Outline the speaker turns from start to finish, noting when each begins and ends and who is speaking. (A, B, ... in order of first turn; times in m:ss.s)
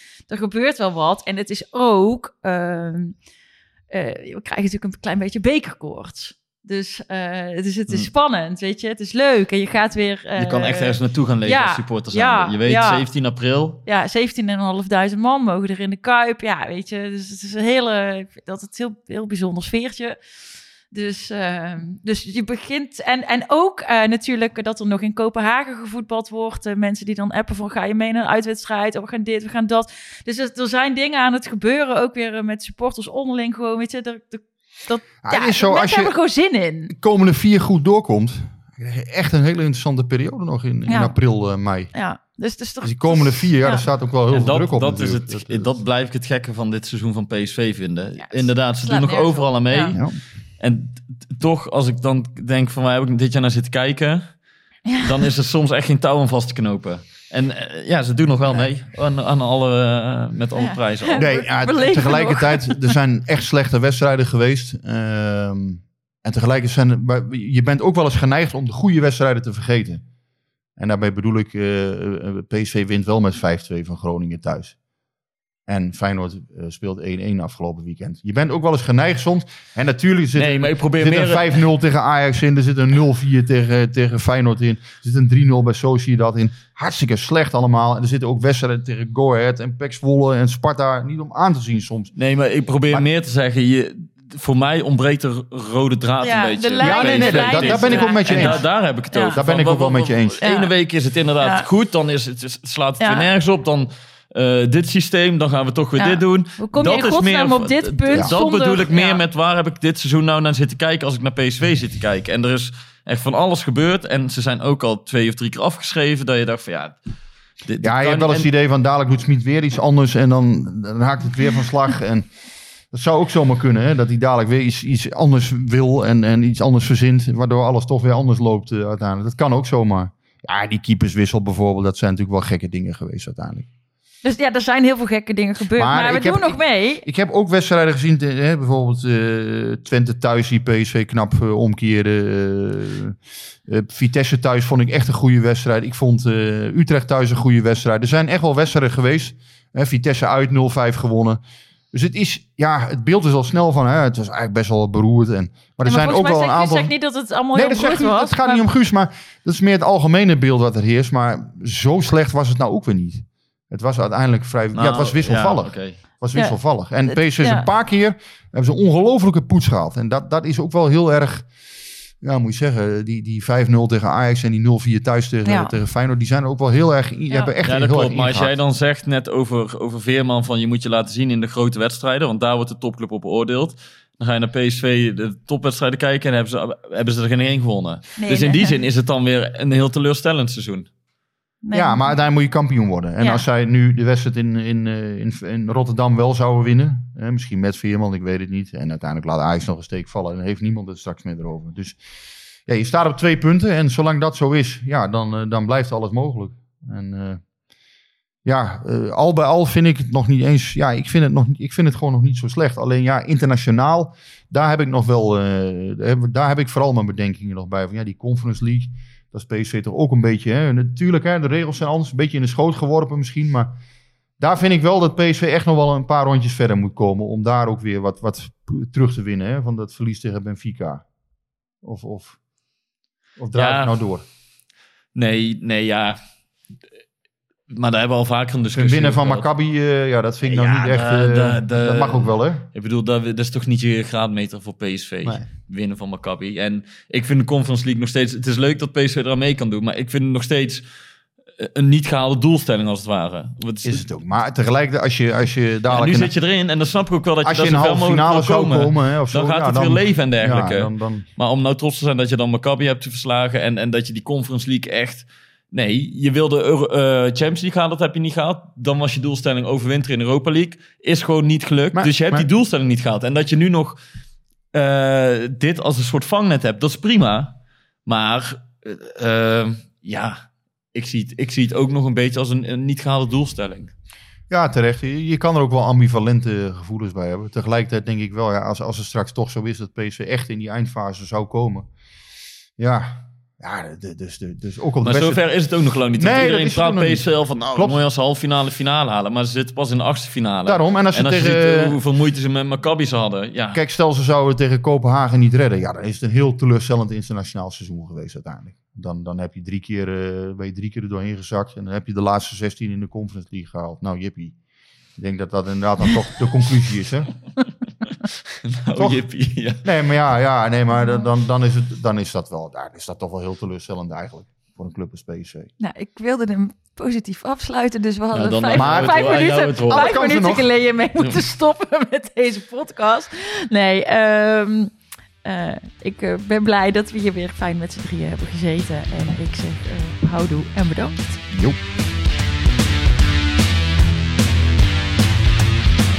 0:00.3-0:03.1 A
0:03.9-0:13.1 A
0:10.4-0:13.8 B
0:13.8-0:20.2 A
0:20.9-0:36.9 A
0:35.2-0:36.1 C
0:36.9-0:41.9 C
0:40.8-0:41.1 A
0:41.9-0:43.8 A
0:42.8-0:45.8 C
0:44.3-0:50.0 B
0:48.2-0:49.9 A
0:50.6-0:54.3 B
0:55.0-1:01.3 B
1:00.6-1:02.9 A
1:01.2-1:10.0 C
1:10.8-1:14.7 C
1:15.7-1:32.1 C
1:20.4-1:21.6 B
1:32.2-1:57.0 B
1:36.2-1:39.4 A
1:36.8-1:38.6 C
1:39.3-1:40.4 C
1:40.4-1:40.7 A
1:41.4-1:41.6 A
1:43.0-1:43.3 A
1:46.0-1:49.2 A
1:57.6-1:58.5 B
1:57.8-2:02.2 C
2:02.9-2:13.7 C
2:14.2-2:17.0 A
2:15.8-2:31.4 C
2:31.9-2:36.9 C
2:35.8-2:38.6 A
2:37.5-2:51.5 C
2:44.7-2:46.0 B
2:46.3-2:47.6 A
2:52.2-2:58.5 C
2:55.4-2:55.7 A
2:57.6-3:10.9 B
3:08.2-3:08.8 A
3:11.6-3:12.1 A
3:11.7-3:22.0 C
3:22.6-3:27.4 C
3:28.4-3:43.7 C
3:44.4-3:51.0 C
3:51.8-3:52.4 C
3:53.4-3:54.2 C
3:53.5-3:54.0 B
3:55.1-3:56.2 B
3:57.7-3:59.4 B
3:58.7-4:02.6 C
4:00.4-4:10.8 B
4:11.6-4:14.0 B
4:13.8-4:16.3 C
4:15.9-4:34.0 B
4:17.4-4:21.2 C
4:31.9-4:32.5 C
4:34.7-4:37.5 B
4:38.0-4:40.4 B
4:40.9-4:43.9 B
4:44.5-4:51.9 C
4:52.8-4:55.4 C
4:55.0-5:03.8 B
4:56.1-4:58.0 C
5:00.6-5:02.0 C
5:03.7-5:14.6 C
5:15.2-5:17.3 C
5:18.6-5:19.8 B
5:18.9-5:19.2 C
5:19.8-5:25.7 C
5:25.8-5:41.4 A
5:28.3-5:30.1 B
5:28.7-5:30.6 C
5:41.5-5:41.8 C